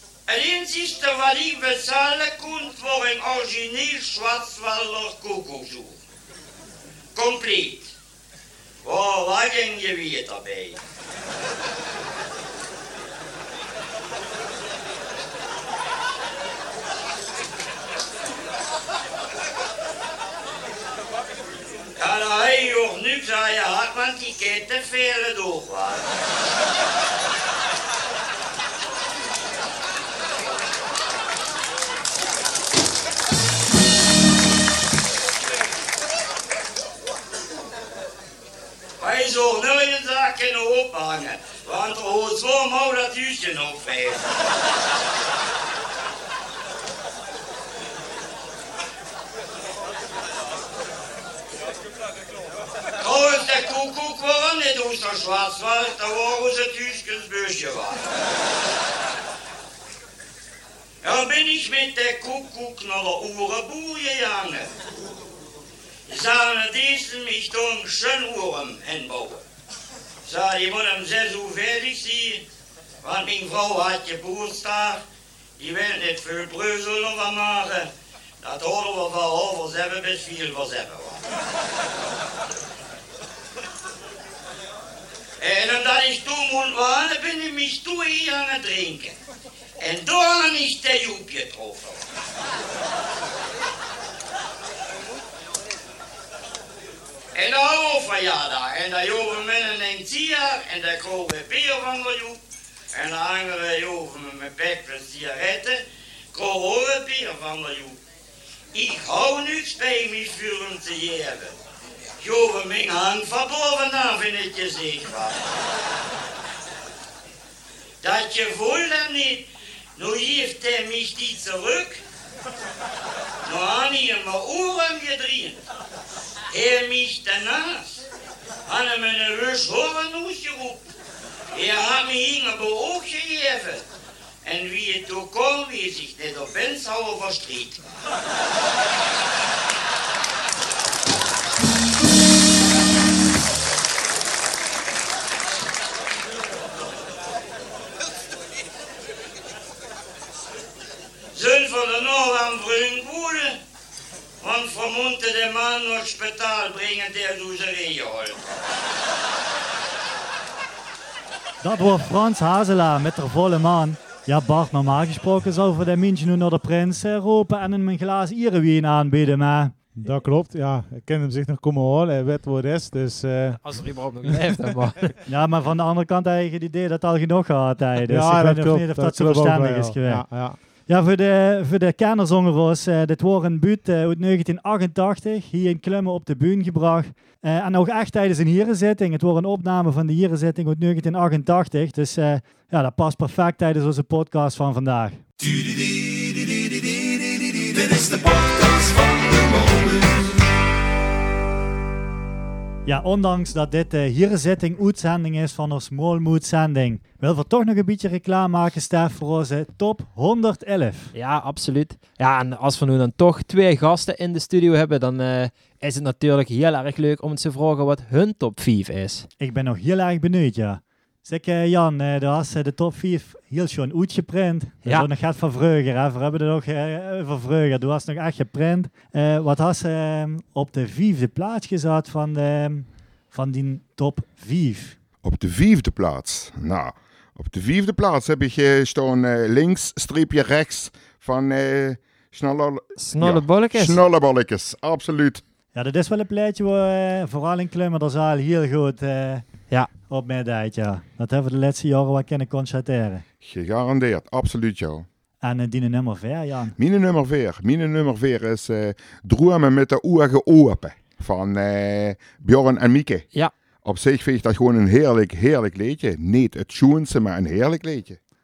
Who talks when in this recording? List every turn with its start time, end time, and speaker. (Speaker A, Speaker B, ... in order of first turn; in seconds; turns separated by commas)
Speaker A: 0.3-6.0, Speaker A: 7.2-7.9, Speaker A: 8.8-10.8, Speaker A: 22.0-26.1, Speaker A: 39.0-44.3, Speaker A: 53.0-58.0, Speaker A: 61.0-64.7, Speaker A: 66.1-69.4, Speaker A: 70.2-72.4, Speaker A: 73.0-75.0, Speaker A: 75.6-77.9, Speaker A: 78.4-81.2, Speaker A: 85.4-89.2, Speaker A: 89.8-92.0, Speaker A: 97.3-102.4, Speaker A: 102.9-105.8, Speaker A: 106.3-108.0, Speaker A: 108.7-111.5, Speaker A: 112.2-115.4, Speaker A: 118.0-122.0, Speaker A: 123.5-125.6, Speaker A: 126.5-128.0, Speaker A: 128.7-130.8, Speaker A: 131.5-133.8, Speaker A: 134.4-137.8, Speaker A: 151.3-153.6, Speaker A: 154.4-158.4, Speaker B: 161.6-169.8, Speaker C: 170.0-175.1, Speaker D: 173.6-175.1, Speaker B: 175.3-195.2, Speaker C: 178.1-180.6, Speaker E: 195.4-200.3, Speaker B: 202.9-211.1, Speaker D: 211.1-219.3, Speaker B: 219.4-235.0, Speaker F: 235.2-245.4, Speaker D: 243.0-244.0, Speaker B: 245.7-249.5, Speaker B: 250.1-253.2, Speaker F: 253.4-255.1, Speaker B: 255.4-256.8, Speaker F: 256.8-263.3, Speaker F: 263.8-268.2